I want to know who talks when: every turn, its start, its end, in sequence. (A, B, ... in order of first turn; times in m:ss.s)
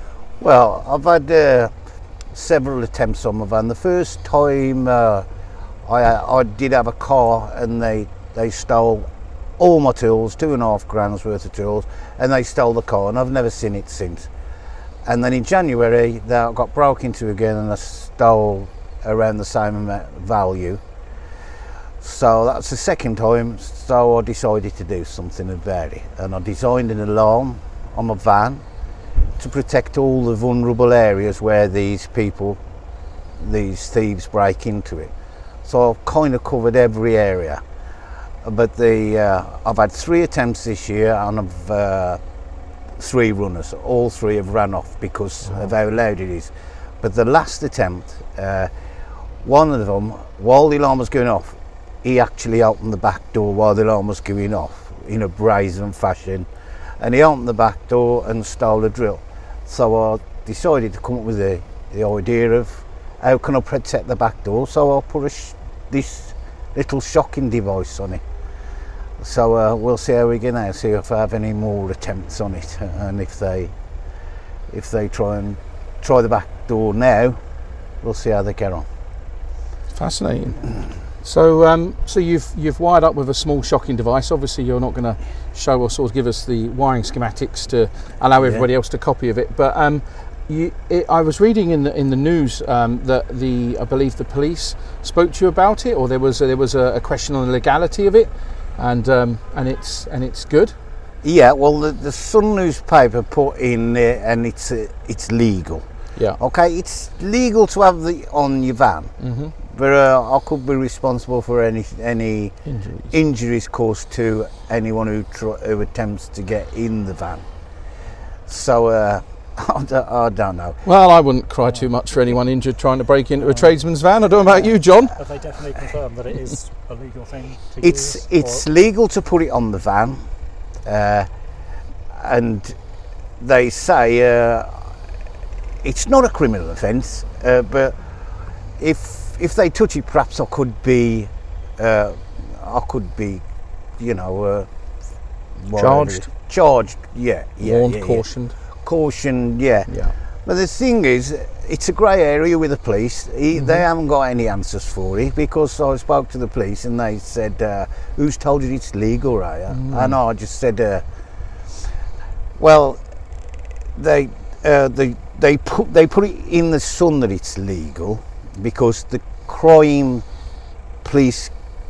0:00.4-0:01.7 A
0:02.3-0:05.2 A
0:05.8-0:09.1 A
0:09.6-0:14.3 A
0:15.0-0:20.8 A
0:22.0-0:28.6 A
0:29.4-0:32.6 A
0:33.4-0:35.1 A
0:35.6-0:37.6 A
0:38.4-0:42.2 A
0:43.0-0:48.7 A
0:45.4-0:45.7 B
0:49.4-0:56.5 A
0:57.0-1:08.2 A
1:09.2-1:13.7 A
1:14.7-1:17.4 A
1:18.0-1:18.8 A
1:19.9-1:40.7 B
1:28.4-1:28.6 A
1:41.2-1:45.8 A
1:46.4-1:49.1 A
1:49.2-1:49.5 B
1:49.7-1:52.6 A
1:52.6-1:53.1 B
1:53.1-1:57.4 A
1:58.5-2:00.8 A
2:00.8-2:05.1 B
2:03.4-2:08.6 C
2:07.8-2:10.2 A
2:10.8-2:11.3 A
2:12.1-2:12.8 A
2:13.4-2:14.9 A
2:15.8-2:17.9 A
2:18.8-2:23.4 A
2:24.0-2:24.7 A
2:25.6-2:28.2 A
2:25.7-2:26.3 B
2:27.6-2:28.6 B
2:28.8-2:29.9 A
2:29.9-2:30.2 B
2:30.4-2:41.0 A
2:33.5-2:33.8 B
2:39.7-2:40.2 B
2:42.6-2:43.0 A
2:44.0-2:50.2 A
2:51.0-2:51.5 A